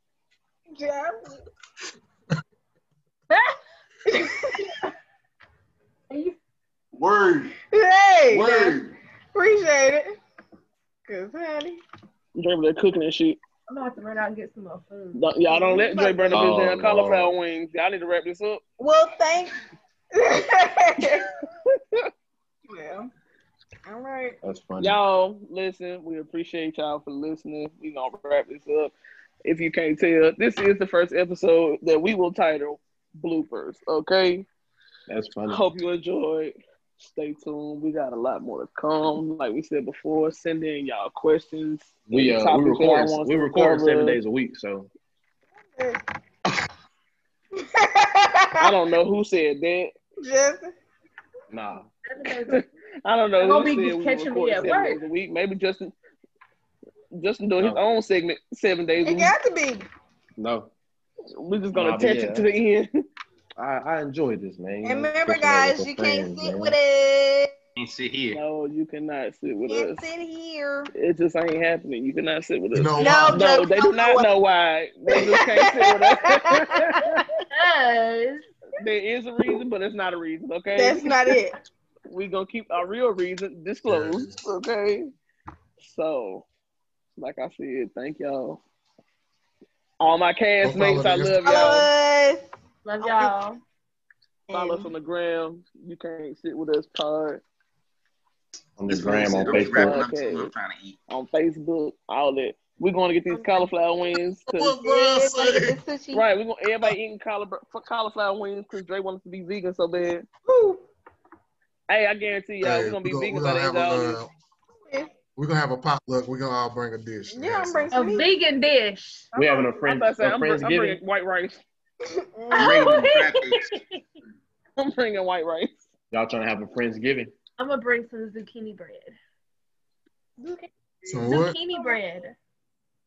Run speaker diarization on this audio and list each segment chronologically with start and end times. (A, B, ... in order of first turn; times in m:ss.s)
0:00.7-0:01.4 A
0:03.3-0:03.6 B
0:04.1-0:04.9 A
0:06.1-0:06.4 B
0:06.9-0:07.5 C
0:07.7-0:10.2 A
0:08.3-0:08.9 C
0:11.0-0:11.8 A
0:12.3-0:13.4 D
0:13.7-0:15.2 B
0:15.1-0:18.6 D
0:15.5-0:16.6 A
0:16.3-0:17.3 E
0:18.8-0:19.5 A
0:20.1-0:21.3 A
0:22.7-0:23.1 A
0:23.8-0:24.4 A
0:24.4-0:25.0 E
0:24.8-0:34.4 D
0:35.1-0:35.6 E
0:35.5-0:44.2 D
0:42.0-0:44.9 E
0:45.7-0:46.0 A
0:47.6-0:48.8 A
0:48.6-0:49.9 D
0:50.2-0:50.7 A
0:51.5-0:51.9 E
0:52.0-0:52.6 B
0:52.5-0:55.9 D
0:53.4-0:55.0 B
0:57.2-0:59.3 D
0:59.0-0:59.9 A
1:00.4-1:00.7 E
1:01.4-1:02.9 D
1:01.7-1:02.5 E
1:03.6-1:06.8 E
1:04.8-1:07.5 A
1:07.8-1:08.4 F
1:08.3-1:10.1 D
1:09.7-1:10.9 A
1:10.9-1:17.1 D
1:12.7-1:13.5 C
1:13.0-1:14.3 A
1:15.2-1:17.2 A
1:17.5-1:18.4 B
1:18.8-1:21.2 D
1:20.8-1:21.5 A
1:22.1-1:25.1 D
1:23.9-1:24.4 C
1:25.8-1:26.4 D
1:27.2-1:28.6 D
1:30.0-1:31.9 D
1:30.6-1:31.5 C
1:31.4-1:32.4 A
1:32.8-1:33.6 B
1:33.0-1:33.3 A
1:34.5-1:34.9 A
1:34.5-1:37.4 D
1:38.8-1:40.0 E
1:38.9-1:41.0 F
1:39.4-1:40.5 D
1:41.1-1:44.7 D
1:44.5-1:45.8 C
1:44.8-1:46.3 A
1:46.1-1:50.2 D
1:50.4-1:50.8 A
1:51.9-1:54.2 D
1:52.6-1:54.3 C
1:54.8-1:55.1 A
1:55.4-1:57.9 C
1:57.3-1:58.3 A
1:57.9-1:59.3 B
1:59.3-1:59.7 A
1:59.3-2:01.0 E
1:59.8-2:01.6 D
2:02.3-2:03.0 A
2:02.5-2:04.0 B
2:02.6-2:03.7 F
2:04.8-2:05.8 D
2:06.1-2:07.3 E
2:07.6-2:09.1 B
2:11.1-2:11.6 C
2:11.2-2:12.3 B